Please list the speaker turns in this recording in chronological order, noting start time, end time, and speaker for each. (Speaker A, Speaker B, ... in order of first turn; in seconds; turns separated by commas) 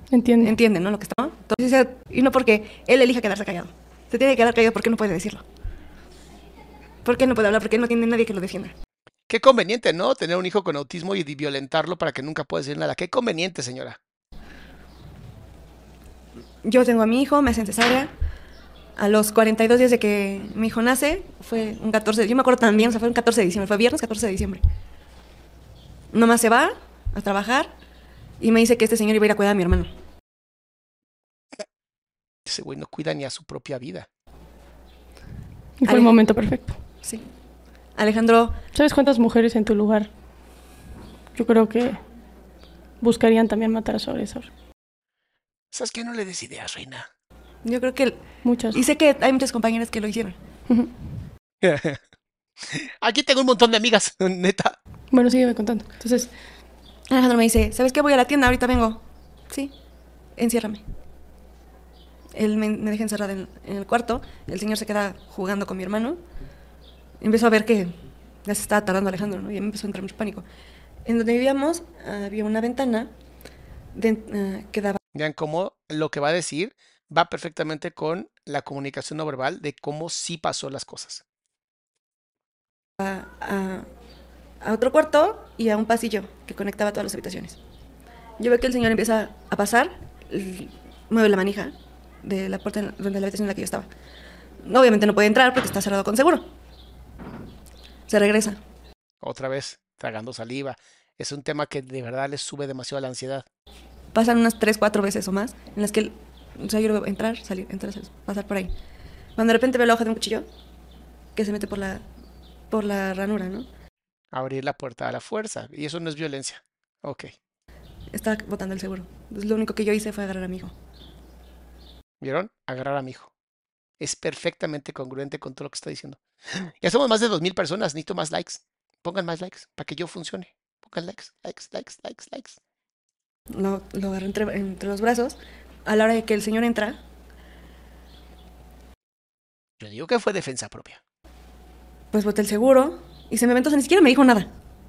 Speaker A: 0.1-0.5, Speaker B: 0.4-5.4, Speaker B: 7.0-8.7, Speaker C: 9.3-14.0, Speaker B: 16.6-18.1, Speaker B: 19.0-24.6, Speaker B: 26.1-27.7, Speaker B: 28.4-29.9, Speaker C: 32.5-34.1, Speaker A: 35.8-36.8, Speaker B: 35.8-36.1, Speaker B: 38.0-38.6, Speaker A: 38.7-40.1, Speaker A: 41.3-42.0, Speaker A: 43.0-44.5, Speaker C: 45.7-47.1, Speaker B: 47.6-48.2, Speaker A: 48.4-48.8, Speaker B: 48.7-50.4, Speaker C: 51.6-52.0, Speaker C: 52.6-54.8, Speaker A: 55.1-56.3, Speaker B: 57.1-59.7, Speaker B: 60.4-60.8, Speaker B: 62.3-66.2, Speaker B: 67.2-70.4, Speaker B: 71.0-73.1, Speaker B: 73.9-75.0, Speaker C: 75.1-81.2, Speaker B: 83.0-83.9, Speaker B: 84.6-87.6, Speaker B: 88.4-93.9, Speaker B: 94.6-96.5, Speaker B: 98.1-98.6, Speaker C: 99.2-103.4, Speaker B: 104.1-108.7, Speaker B: 109.4-110.5, Speaker B: 111.3-112.0, Speaker B: 112.7-113.7, Speaker C: 114.3-117.3, Speaker B: 118.1-120.7, Speaker C: 122.2-123.3, Speaker C: 124.0-132.6, Speaker B: 133.5-137.0, Speaker C: 139.8-141.0, Speaker B: 142.1-144.5